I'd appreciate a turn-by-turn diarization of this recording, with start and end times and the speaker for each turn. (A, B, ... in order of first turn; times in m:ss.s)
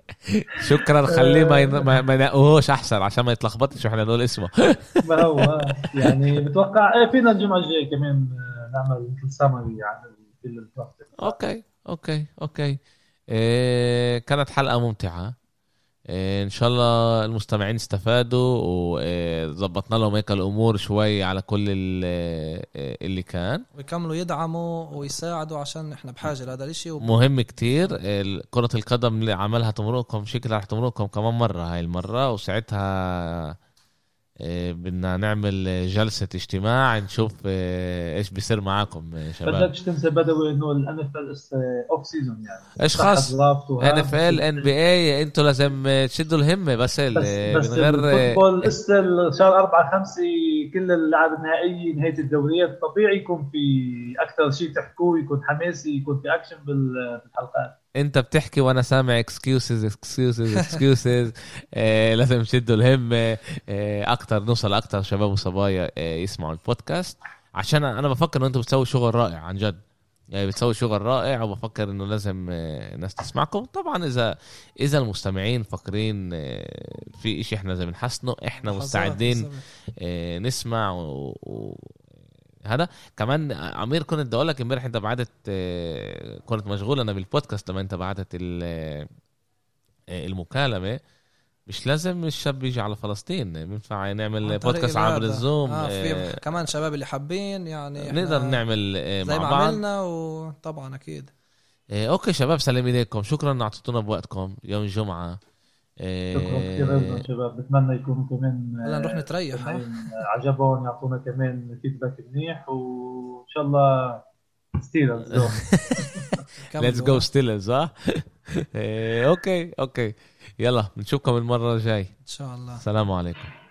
0:00.2-0:06.2 A
0:00.6-0:02.0 B
0:05.0-0:11.4 B
0:11.2-0:15.4 A
0:16.1-0:23.6 A
0:23.8-0:27.2 C
0:27.0-0:33.6 A
0:34.4-0:39.7 A
0:39.5-0:44.7 B
0:42.8-0:48.7 A
0:47.2-0:57.8 B
0:58.0-1:09.8 A
1:10.3-1:22.0 A
1:18.6-1:19.6 C
1:22.6-1:29.1 A
1:30.1-1:31.0 A
1:31.7-1:36.4 A
1:34.4-1:38.6 C
1:38.0-1:39.8 A
1:39.2-1:41.3 C
1:41.9-1:45.4 A
1:46.0-1:47.3 A
1:46.3-1:54.2 B
1:48.8-1:49.8 C
1:54.8-1:56.4 B
1:55.3-1:56.1 A
1:56.7-1:57.2 C
1:56.8-2:02.1 A
2:02.3-2:02.8 C
2:02.8-2:03.5 A